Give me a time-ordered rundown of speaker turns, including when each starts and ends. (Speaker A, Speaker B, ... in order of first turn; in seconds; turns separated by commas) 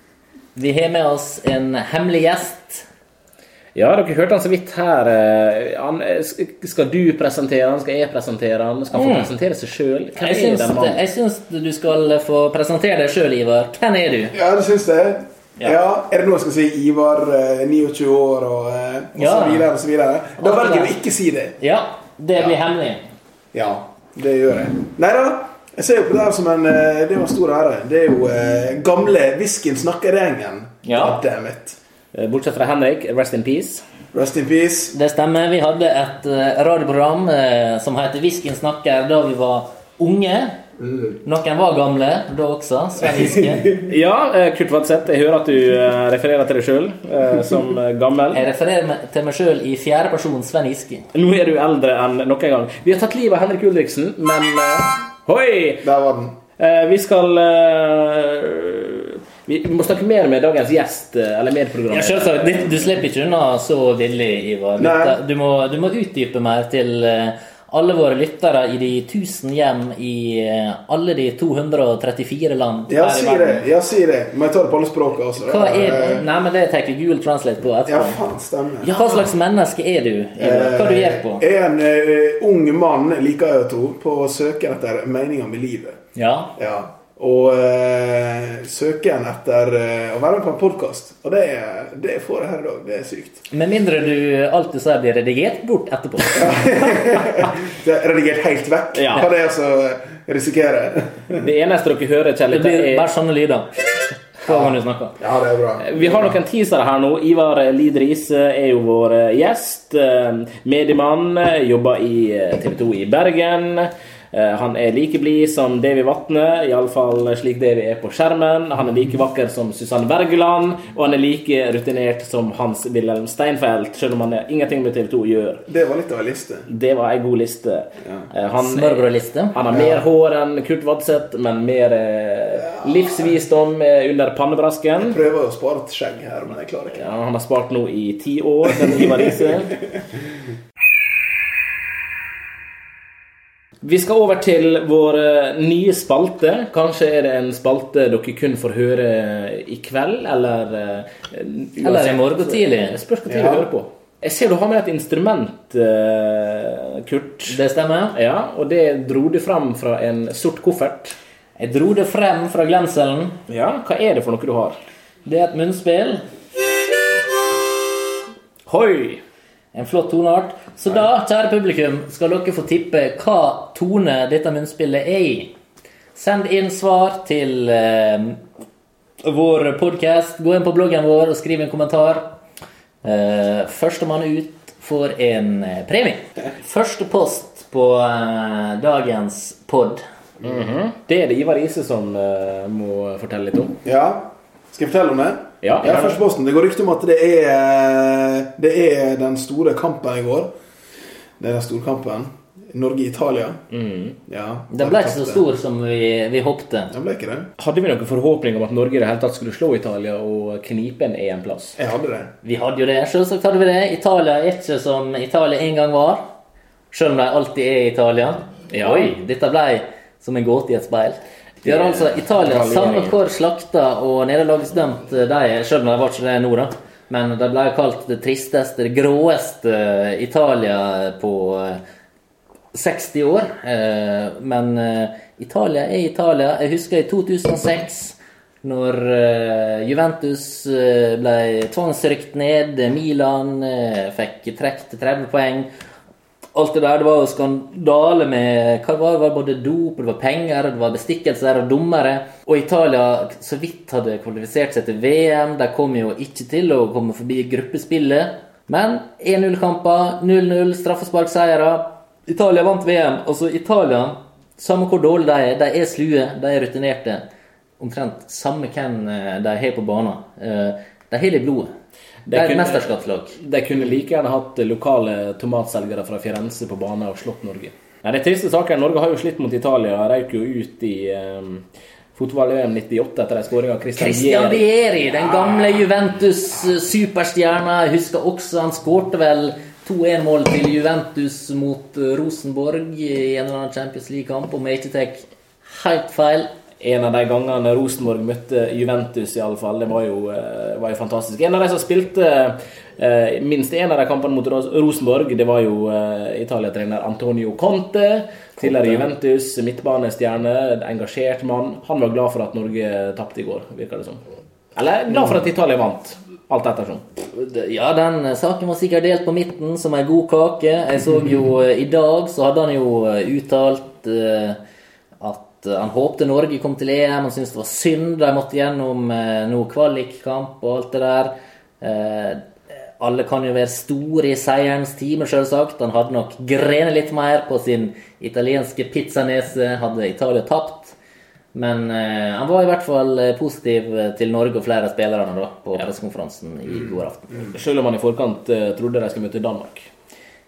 Speaker A: 0.5-2.8, Speaker B: 3.7-11.0, Speaker A: 8.9-9.3, Speaker A: 10.2-14.3, Speaker C: 14.3-21.6, Speaker A: 19.1-19.7, Speaker A: 20.4-20.9, Speaker A: 21.6-23.0, Speaker C: 23.5-31.8, Speaker A: 30.8-31.2, Speaker B: 32.1-33.8, Speaker C: 34.1-34.9, Speaker A: 34.9-40.6, Speaker C: 40.8-41.1, Speaker A: 41.2-43.7, Speaker B: 43.8-48.4, Speaker A: 48.3-51.1, Speaker B: 51.1-55.9, Speaker C: 55.8-56.4, Speaker B: 56.6-62.9, Speaker A: 61.9-73.6, Speaker C: 64.8-65.2, Speaker C: 72.9-76.3, Speaker A: 75.4-78.2, Speaker C: 77.8-79.0, Speaker A: 78.8-81.4, Speaker C: 80.4-86.0, Speaker A: 86.2-86.5, Speaker C: 86.6-93.4, Speaker A: 93.5-96.6, Speaker C: 96.3-101.5, Speaker B: 98.9-99.3, Speaker B: 101.3-103.0, Speaker A: 102.5-103.8, Speaker A: 104.4-105.2, Speaker C: 104.5-106.3, Speaker B: 105.8-125.6, Speaker C: 125.7-126.7, Speaker B: 126.7-135.2, Speaker C: 128.0-128.3, Speaker A: 128.5-129.6, Speaker C: 129.7-130.0, Speaker C: 132.8-133.2, Speaker C: 135.0-137.0, Speaker B: 136.9-139.8, Speaker B: 143.8-157.6, Speaker A: 151.8-153.0, Speaker C: 153.2-153.7, Speaker A: 157.5-158.2, Speaker B: 158.1-161.1, Speaker A: 161.6-163.4, Speaker B: 163.5-164.8, Speaker A: 165.2-166.2, Speaker B: 168.7-169.2, Speaker A: 169.7-175.5, Speaker A: 176.1-178.4, Speaker A: 179.2-182.3, Speaker A: 183.0-190.0, Speaker C: 190.4-190.7, Speaker B: 190.4-193.8, Speaker C: 193.8-200.5, Speaker B: 195.6-196.2, Speaker C: 201.4-203.6, Speaker B: 203.7-204.2, Speaker C: 204.3-205.4, Speaker A: 204.7-206.9, Speaker C: 206.9-207.5, Speaker B: 207.6-211.8, Speaker C: 211.8-212.3, Speaker A: 212.4-216.2, Speaker A: 216.9-231.8, Speaker B: 218.7-219.1, Speaker B: 221.6-223.2, Speaker A: 232.7-245.7, Speaker A: 246.5-267.2, Speaker A: 267.8-271.7, Speaker B: 272.3-284.6, Speaker A: 272.3-273.4, Speaker A: 283.9-296.5, Speaker B: 296.8-314.2, Speaker A: 308.6-308.9, Speaker B: 314.7-317.0, Speaker A: 317.3-324.6, Speaker A: 325.2-332.4, Speaker A: 333.0-340.9, Speaker A: 341.5-347.5, Speaker B: 347.5-349.9